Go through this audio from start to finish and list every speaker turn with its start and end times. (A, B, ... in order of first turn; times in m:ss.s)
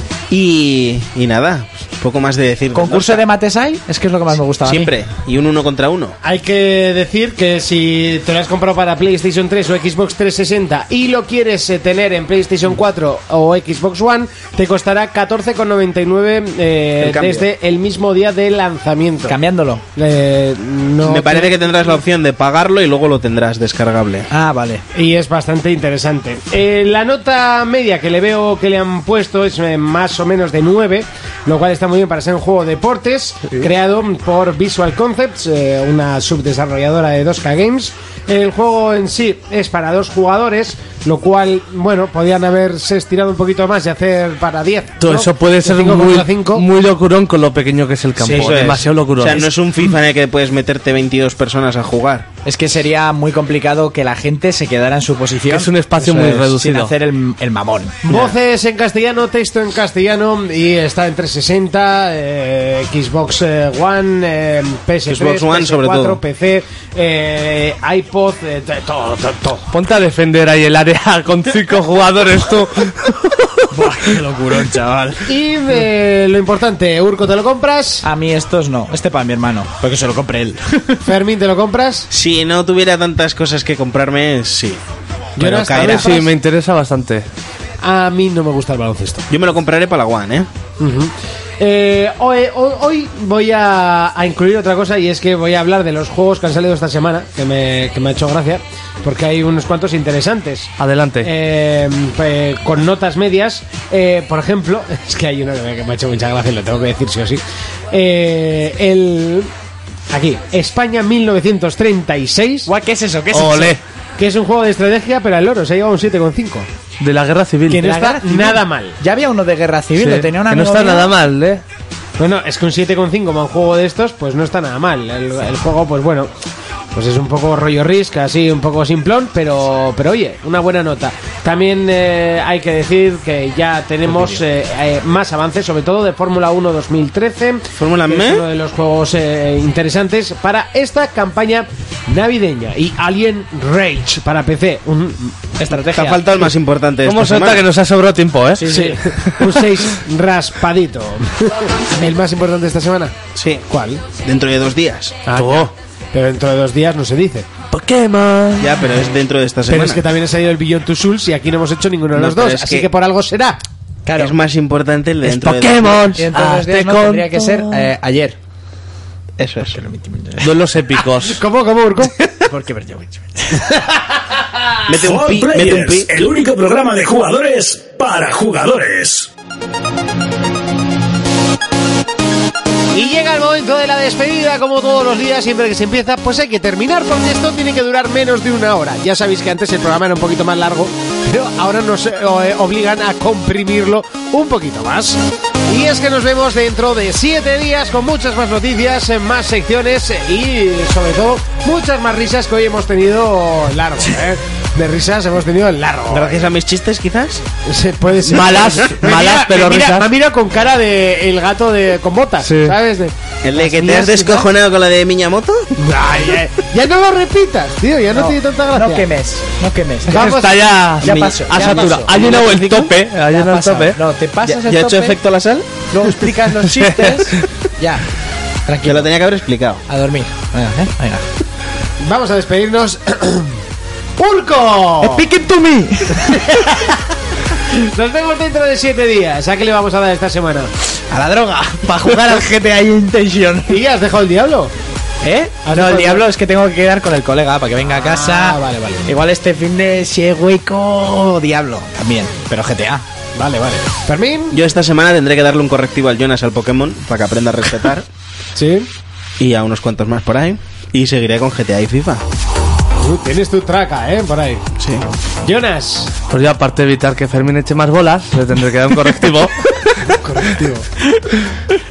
0:00.3-0:03.2 A
0:02.7-0:04.9 B
0:04.6-0:06.1 A
0:06.2-0:19.4 C
0:17.0-0:17.4 A
0:19.3-0:19.8 B
0:20.0-0:21.6 C
0:21.0-0:24.3 A
0:24.3-0:24.8 B
0:24.9-0:46.6 C
0:45.0-0:49.5 D
0:48.2-0:48.6 B
0:48.3-0:52.3 A
0:52.4-0:58.1 B
0:55.5-0:56.9 D
0:58.0-1:09.7 C
1:05.1-1:06.2 A
1:09.7-1:13.6 D
1:13.7-1:15.3 B
1:15.2-1:18.0 C
1:18.0-1:21.0 B
1:21.0-1:22.1 C
1:22.1-1:24.8 A
1:25.4-1:26.3 C
1:25.4-1:26.0 B
1:25.4-1:26.1 A
1:25.9-1:27.3 D
1:27.8-1:29.2 C
1:29.3-1:30.5 A
1:30.8-1:40.7 C
1:40.8-1:41.3 D
1:41.2-1:47.4 C
1:47.9-1:49.5 C
1:50.1-1:52.7 C
1:52.7-1:53.8 B
1:53.3-1:53.8 D
1:54.2-1:56.7 C
1:57.0-1:57.8 D
1:57.7-2:01.1 B
1:57.8-1:59.0 C
2:00.0-2:01.6 D
2:02.2-2:06.3 C
2:06.9-2:25.6 C
2:14.1-2:14.4 B
2:17.8-2:18.4 A
2:25.6-2:26.3 B
2:25.8-2:27.6 A
2:27.0-2:29.8 D
2:28.5-2:29.0 B
2:28.7-2:33.1 C
2:33.3-2:35.2 A
2:33.7-2:34.0 C
2:35.2-2:37.5 C
2:35.3-2:35.7 D
2:37.7-2:38.9 D
2:38.6-2:40.0 A
2:39.7-2:43.6 C
2:42.1-2:42.9 A
2:44.0-2:44.4 B
2:44.1-2:46.2 A
2:45.2-2:47.9 D
2:46.2-2:48.4 B
2:49.4-2:49.8 A
2:49.7-2:50.5 B
2:50.4-2:51.4 D
2:51.2-2:52.3 C
2:52.5-2:53.8 B
2:53.6-2:54.8 C
2:54.9-2:56.1 A
2:54.9-2:59.3 E
3:02.9-3:26.5 C
3:26.1-3:27.4 A
3:27.6-3:33.9 C
3:28.3-3:30.1 D
3:32.4-3:32.8 D
3:33.4-3:35.8 A
3:33.9-3:34.3 D
3:35.8-3:39.1 C
3:38.1-3:40.3 B
3:40.1-3:40.6 C
3:40.1-3:44.0 D
3:41.0-3:42.9 A
3:41.0-3:42.1 B
3:43.3-3:45.2 B
3:44.4-3:45.7 A
3:45.9-3:48.0 B
3:46.6-3:47.4 D
3:48.6-3:49.1 B
3:48.8-3:49.8 A
3:49.9-3:51.3 B
3:52.0-3:53.6 C
3:54.2-3:55.2 C
3:55.0-3:57.0 B
3:57.6-4:00.7 C
4:01.1-4:03.8 B
4:03.7-4:04.7 C
4:05.2-4:13.0 B
4:05.6-4:06.2 C
4:07.9-4:09.1 C
4:13.4-4:14.6 C
4:14.5-4:18.0 A
4:18.6-4:18.9 C
4:19.4-4:22.2 A
4:23.0-4:24.6 C
4:24.8-4:25.0 A
4:25.4-4:26.1 C
4:26.3-4:30.0 D
4:30.1-4:30.9 C